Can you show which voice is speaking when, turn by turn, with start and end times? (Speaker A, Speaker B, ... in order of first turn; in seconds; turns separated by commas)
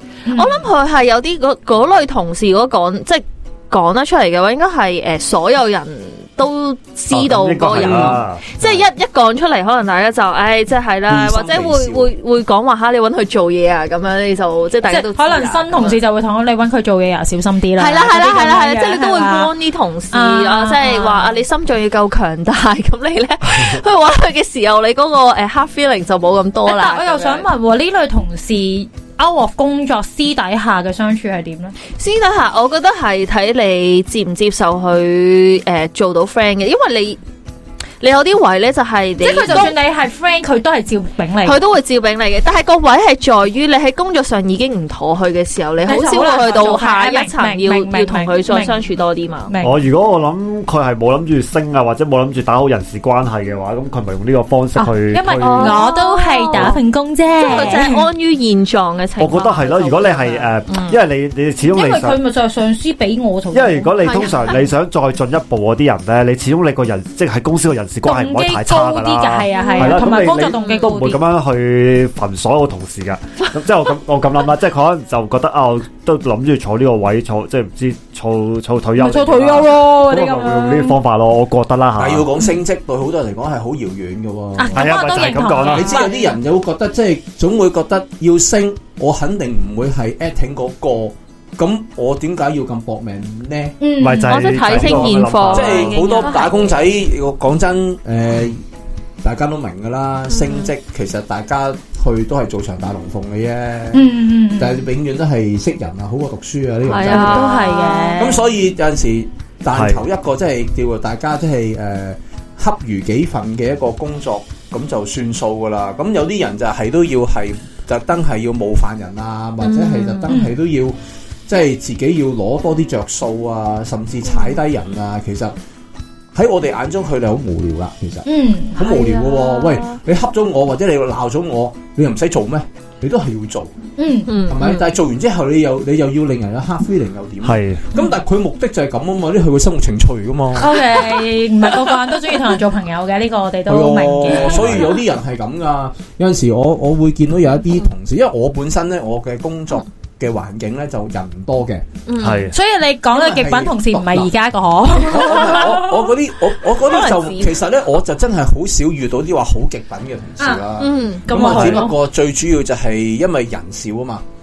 Speaker A: 0.3-0.7, Speaker B: 0.3-16.0, Speaker C: 7.1-8.8, Speaker D: 7.8-8.2, Speaker D: 11.1-12.1, Speaker A: 14.9-19.5, Speaker B: 17.8-27.5, Speaker A: 20.1-21.4, Speaker A: 26.7-31.8, Speaker B: 32.0-37.2, Speaker B: 38.0-39.8, Speaker A: 39.2-41.6, Speaker B: 41.4-49.5, Speaker A: 45.9-48.8, Speaker A: 49.5-49.8, Speaker C: 49.6-55.8, Speaker A: 54.8-58.1, Speaker B: 55.4-56.8, Speaker C: 56.5-56.8, Speaker B: 57.4-61.0, Speaker C: 57.5-57.9, Speaker C: 59.2-62.2, Speaker A: 61.7-64.7, Speaker C: 63.5-82.3, Speaker A: 68.0-71.2, Speaker B: 69.5-70.9, Speaker A: 79.0-81.0, Speaker D: 82.0-85.0, Speaker A: 84.6-86.3, Speaker C: 84.8-86.0, Speaker D: 85.6-93.8, Speaker A: 93.8-94.7, Speaker C: 94.0-96.0, Speaker B: 94.2-96.8, Speaker D: 94.8-98.6, Speaker A: 95.7-96.7, Speaker D: 99.2-121.0, Speaker B: 100.3-100.7, Speaker A: 103.9-104.8, Speaker B: 106.9-108.2, Speaker A: 107.0-108.5, Speaker C: 109.7-110.0, Speaker B: 119.6-120.3, Speaker A: 120.3-120.5, Speaker D: 121.5-125.5, Speaker D: 126.3-133.7, Speaker A: 128.3-128.9, Speaker B: 128.8-130.0, Speaker A: 134.0-134.5, Speaker B: 134.3-134.9, Speaker D: 134.5-141.0, Speaker C: 137.4-137.8, Speaker A: 140.6-145.0, Speaker D: 143.7-151.9, Speaker C: 144.5-144.8, Speaker B: 152.1-152.5, Speaker C: 152.2-152.5, Speaker A: 152.5-155.9, Speaker D: 153.1-154.3, Speaker D: 155.0-164.2, Speaker B: 156.8-157.6, Speaker A: 160.4-160.7, Speaker B: 160.8-161.7, Speaker A: 161.3-162.0